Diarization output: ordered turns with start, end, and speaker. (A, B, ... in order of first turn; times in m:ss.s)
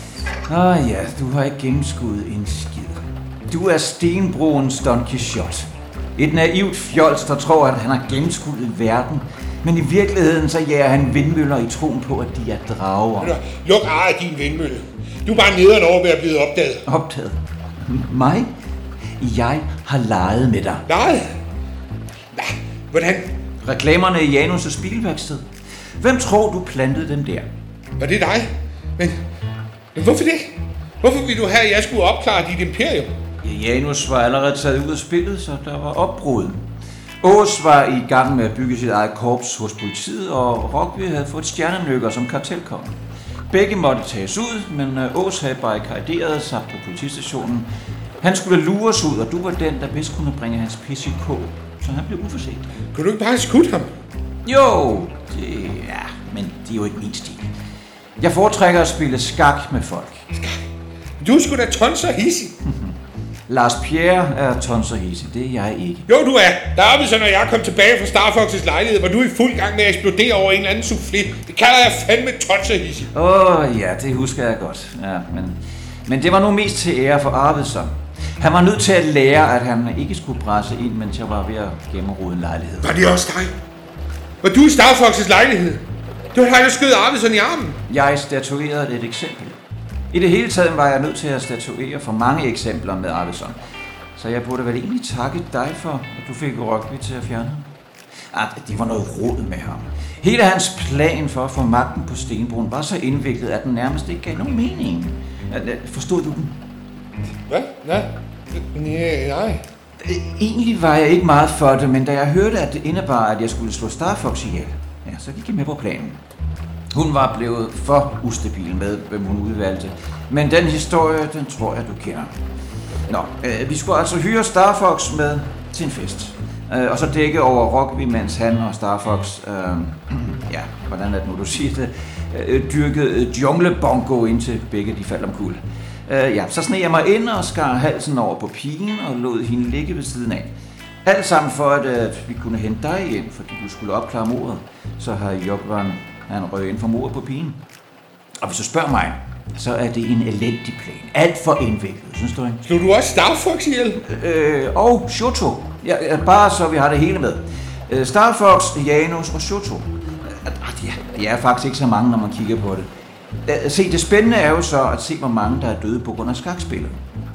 0:00.5-0:13.3 A
0:13.2-0:16.8 B
0:16.8-0:18.5 A
0:19.2-0:20.8 A
0:20.9-0:21.3 B
0:22.3-0:23.3 B
0:23.6-0:25.4 A
0:26.0-0:27.5 A
0:28.0-0:29.2 B
0:29.9-0:33.1 B
0:33.4-0:36.6 A
0:37.2-0:43.0 A
0:43.5-0:47.7 A
0:48.2-0:52.7 A
0:52.9-0:53.9 B
0:54.4-0:57.5 A
0:58.2-1:00.2 A
1:01.2-1:02.5 B
1:02.6-1:02.9 A
1:03.5-1:06.1 A
1:06.1-1:13.1 B
1:13.1-1:22.9 A
1:22.8-1:23.5 B
1:24.4-1:25.8 B
1:26.3-1:27.8 B
1:27.9-1:29.6 A
1:30.1-1:33.6 A
1:34.2-1:37.7 A
1:38.3-1:46.5 A
1:47.5-1:49.6 B
1:50.0-1:56.2 A
1:56.9-2:02.3 A
2:03.1-2:20.5 A
2:21.0-2:27.6 A
2:28.4-2:32.6 A
2:32.6-2:34.0 B
2:33.9-2:42.9 A
2:43.4-2:47.0 A